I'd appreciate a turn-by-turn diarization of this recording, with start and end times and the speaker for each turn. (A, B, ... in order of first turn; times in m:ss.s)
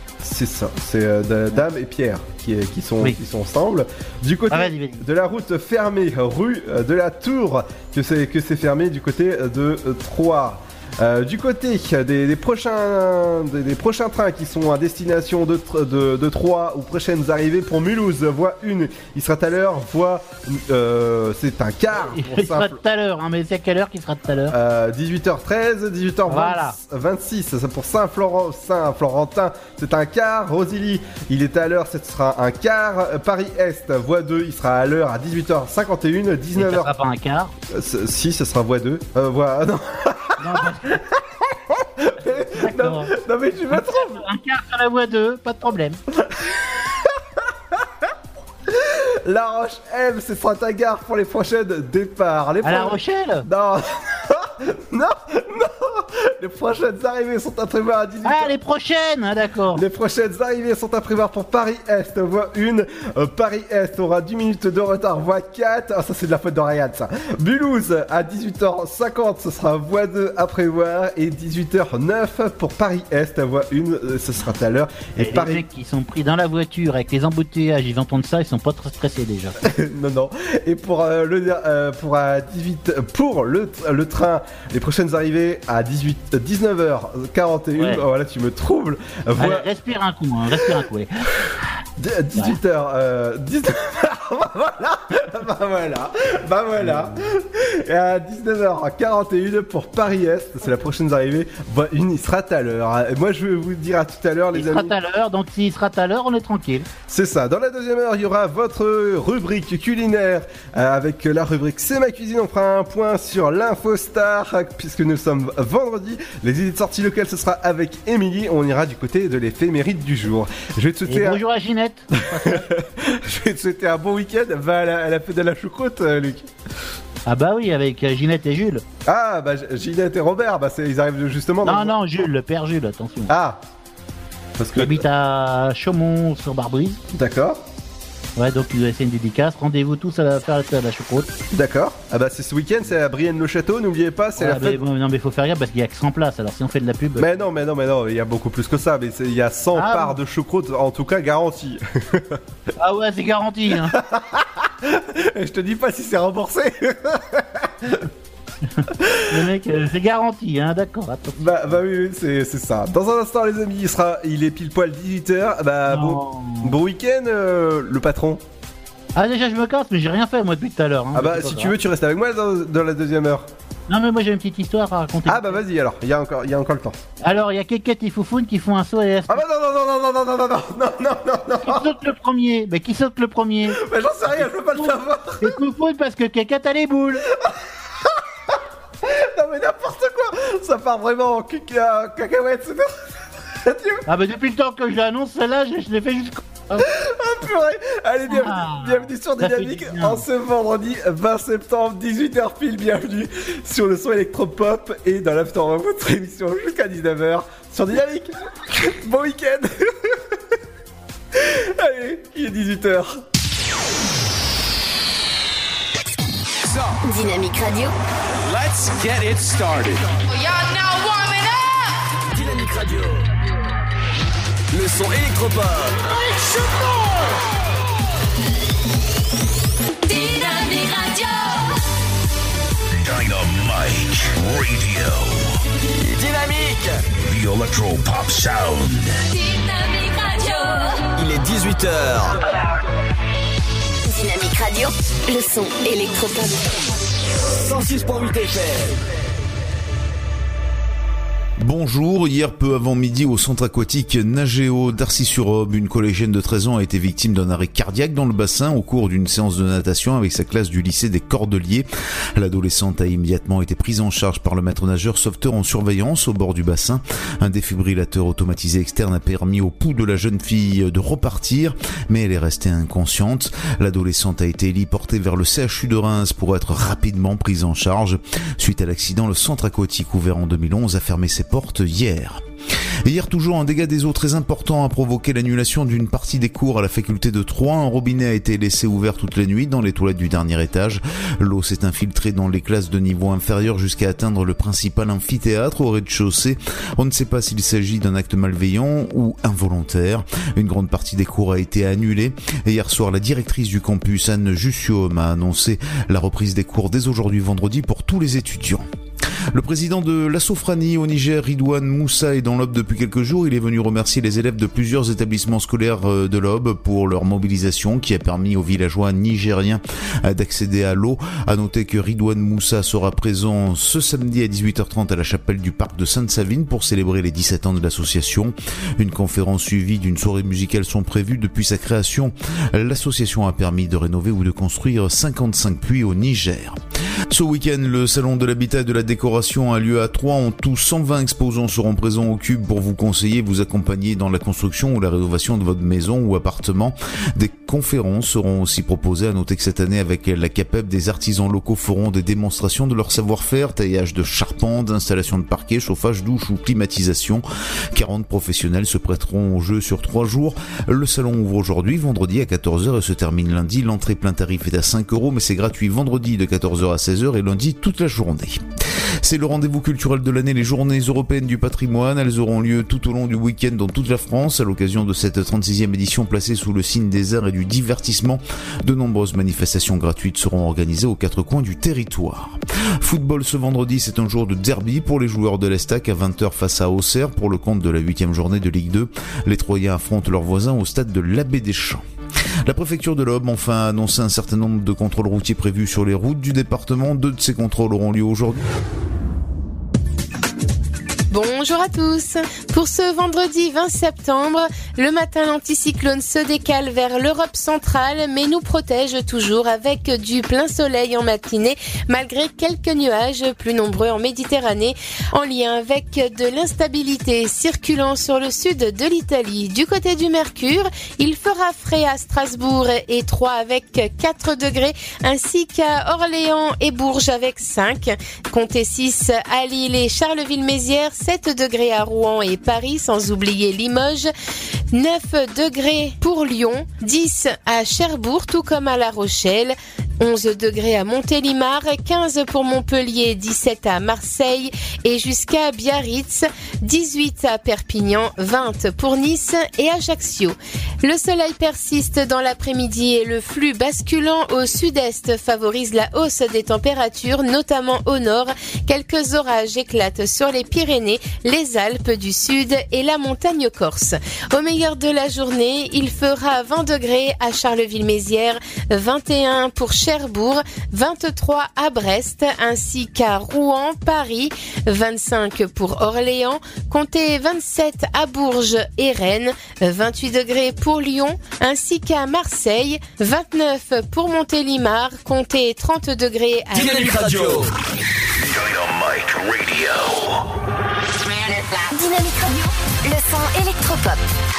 0:00.2-0:22.8 A
0:04.5-0:05.0 B
0:22.0-0:24.5 B
0:24.5-0:36.9 A
0:26.3-0:26.8 B
0:36.6-0:37.5 B
0:37.7-0:41.1 A
0:40.4-0:41.0 B
0:41.7-0:44.2 A
0:42.5-0:43.1 B
0:43.7-0:46.0 B
0:46.1-0:47.0 A
0:48.7-0:58.5 A
0:52.6-0:53.4 B
0:58.2-0:59.8 B
0:59.7-1:15.6 A
1:15.2-1:19.6 B
1:19.6-1:29.6 A
1:27.8-1:28.0 B
1:29.4-1:31.1 B
1:32.0-1:44.9 A
1:44.5-1:46.9 B
1:47.1-2:01.4 A
2:01.1-2:02.6 B
2:02.3-2:06.5 A
2:07.3-2:08.8 B
2:09.0-2:12.0 A
2:11.6-2:13.3 B
2:13.3-2:13.6 A
2:14.6-2:15.0 A
2:14.8-2:17.0 B
2:17.1-2:17.6 A
2:18.4-2:21.3 B
2:21.5-2:24.8 A
2:24.4-2:27.4 B
2:27.2-2:32.4 A
2:29.7-2:30.2 B
2:32.8-2:33.9 B
2:33.9-2:37.9 A
2:38.8-2:41.8 B
2:39.0-2:39.5 A
2:41.4-2:48.4 A
2:45.9-2:46.7 B
2:49.2-2:51.7 B
2:51.1-2:53.5 A
2:53.9-2:55.6 B
2:55.3-2:57.0 A
2:57.2-2:59.4 B
2:59.3-3:01.8 A
3:01.6-3:03.8 B
3:03.7-3:05.5 A
3:04.7-3:07.2 B
3:08.5-3:12.9 A
3:13.6-3:14.0 A
3:14.1-3:16.9 B
3:16.8-3:30.2 A
3:18.3-3:20.2 B
3:31.3-3:33.2 A
3:36.7-3:36.9 C
3:37.0-3:37.9 D
3:38.4-3:40.1 C
3:40.5-3:41.1 E
3:42.3-3:43.2 C
3:44.7-3:46.1 C
3:50.0-3:51.7 E
3:53.0-3:55.5 F
3:56.1-3:57.0 C
3:57.2-3:59.2 F
3:59.3-4:01.0 E
4:01.1-4:02.4 C
4:04.0-4:06.7 D
4:07.4-4:09.0 C
4:11.6-4:42.4 G
4:43.0-5:08.8 G
5:09.5-5:36.8 G
5:37.3-6:08.6 G
6:09.2-6:32.0 G
6:32.6-6:38.6 G
6:41.3-7:14.3 H
7:14.9-8:07.6 H
8:06.7-8:07.7 C
8:08.4-8:10.4 F
8:11.4-8:14.2 D